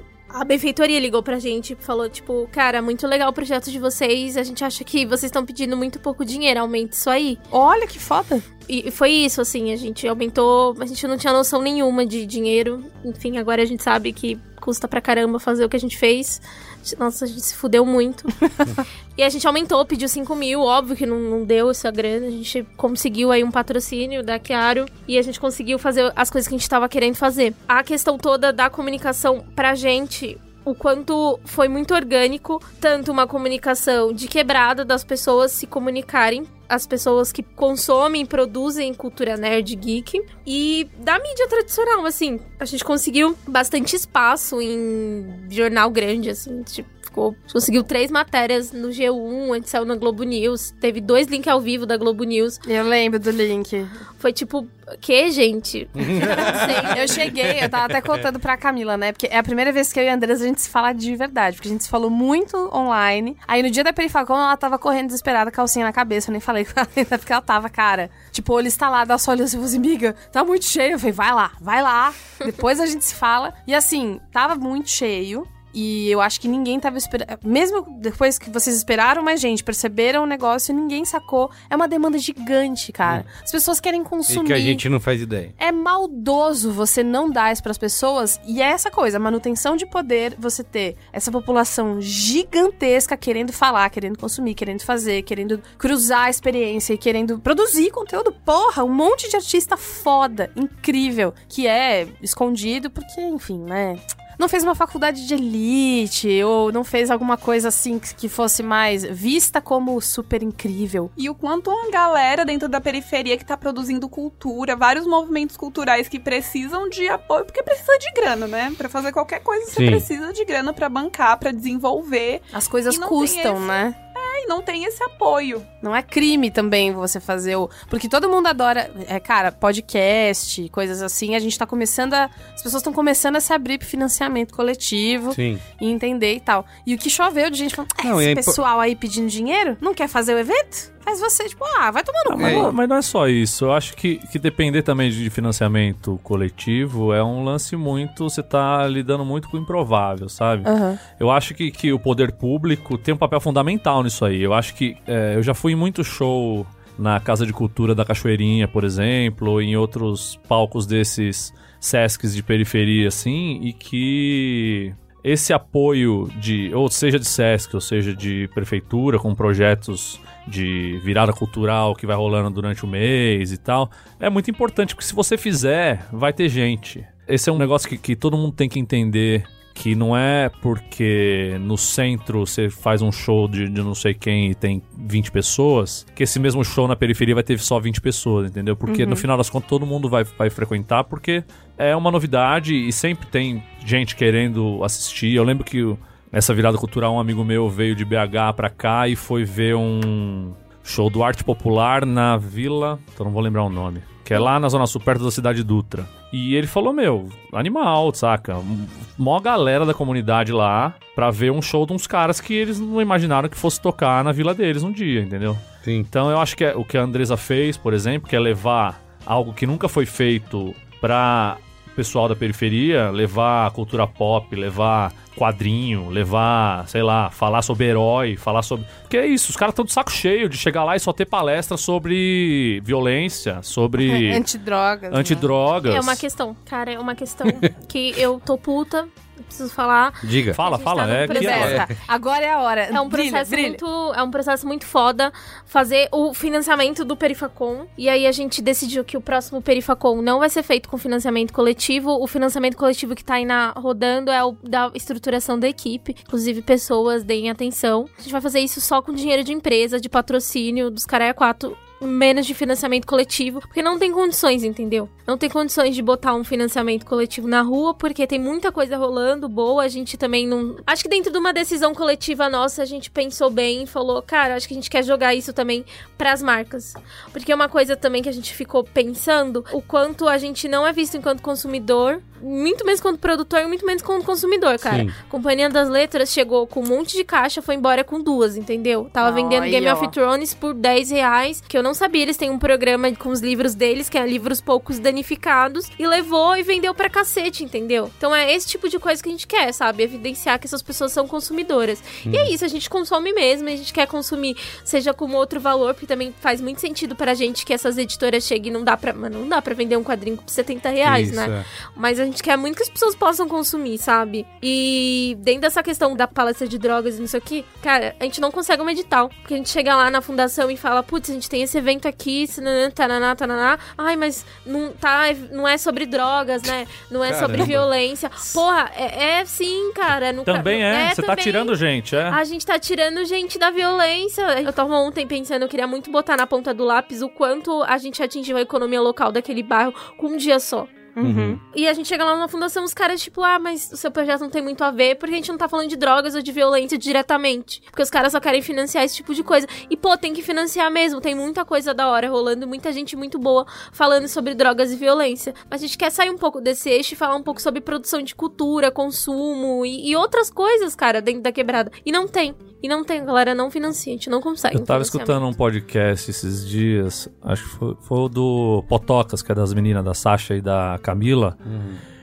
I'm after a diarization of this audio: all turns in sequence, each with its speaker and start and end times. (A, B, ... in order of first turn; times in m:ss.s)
0:00.3-0:07.4 A
0:07.5-0:08.4 B
0:08.7-0:18.4 A
0:19.2-0:52.6 A
0:52.7-0:53.9 B
0:54.2-0:57.2 A
0:56.0-0:58.2 C
0:56.9-1:24.8 B
1:24.3-1:25.5 C
1:25.6-1:51.1 B
1:51.2-2:05.7 D
1:59.7-2:00.1 C
2:02.5-2:04.0 B
2:05.8-2:22.7 B
2:15.3-2:15.6 C
2:18.0-2:18.6 C
2:22.3-3:54.4 E
2:22.4-2:22.8 C
2:30.7-2:31.0 B
3:08.9-3:09.2 B
3:35.8-3:36.1 C
3:54.0-3:55.5 B
3:55.1-3:56.2 E
3:55.9-4:01.8 A
4:00.2-4:00.6 C
4:00.5-4:01.8 E
4:01.3-4:03.8 B
4:01.6-4:01.9 C
4:02.9-5:31.8 A
4:44.9-4:45.1 C
4:49.2-4:50.1 B
5:02.2-5:02.5 C
5:11.0-5:11.6 C
5:27.2-5:27.9 C
5:30.5-5:32.4 E
5:32.3-5:41.0 A
5:41.2-5:41.6 B
5:41.2-5:41.6 C
5:41.7-6:05.4 A
6:04.7-6:11.6 E
6:11.6-6:12.0 C